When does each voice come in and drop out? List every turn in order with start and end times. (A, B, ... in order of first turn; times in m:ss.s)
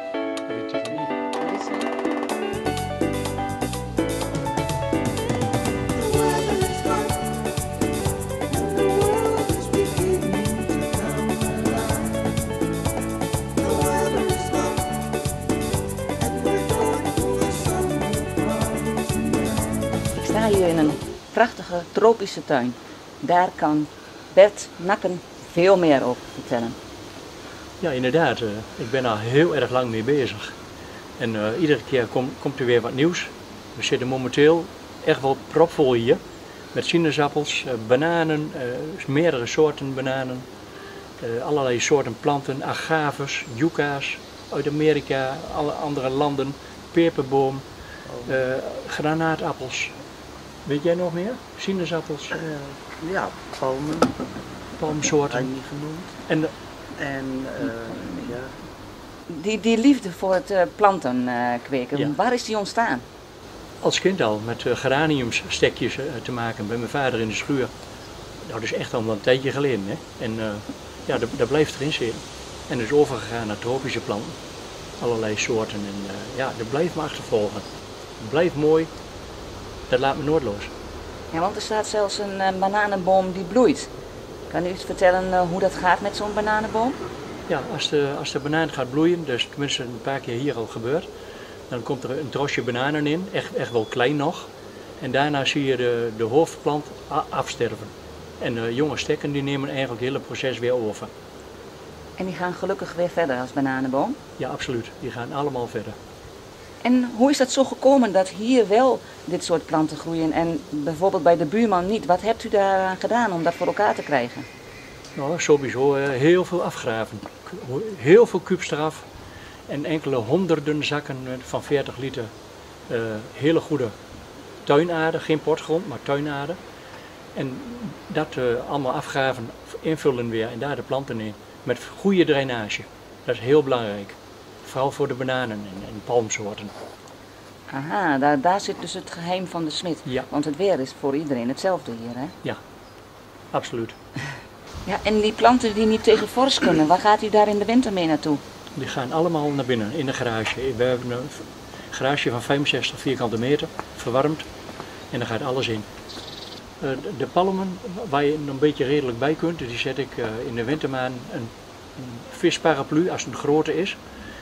0:00.4-0:01.1 A
0:01.3-0:01.9 B
0:10.6-0:11.4 C
0:14.1-0:14.7 C
0:16.3-0:18.5 C
0:20.1-0:26.8 B
0:27.8-0:30.5 A
0:31.2-0:36.2 A
0:36.7-0:40.5 A
0:41.2-0:47.6 A
0:48.2-0:49.9 A
0:50.6-0:52.4 A
0:52.3-0:54.2 C
0:54.8-0:55.5 A
0:55.3-0:56.1 C
0:56.3-0:56.5 A
0:57.0-0:58.5 C
0:57.7-0:58.3 B
0:59.3-1:03.0 B
1:03.8-1:07.7 A
1:08.4-1:14.4 A
1:15.0-1:17.6 A
1:18.2-1:18.9 A
1:19.9-1:20.7 A
1:21.3-1:23.9 B
1:24.5-1:27.0 B
1:27.5-1:31.1 A
1:31.7-1:41.1 A
1:42.2-1:44.2 B
1:44.4-1:46.0 A
1:46.8-1:54.5 B
1:55.1-1:59.0 A
1:59.7-2:02.3 A
2:02.9-2:03.9 A
2:04.6-2:06.6 A
2:07.3-2:16.7 A
2:17.7-2:22.3 B
2:23.5-2:23.9 A
2:24.8-2:28.4 B
2:28.7-2:34.4 A
2:35.1-2:35.9 A
2:36.8-2:44.0 A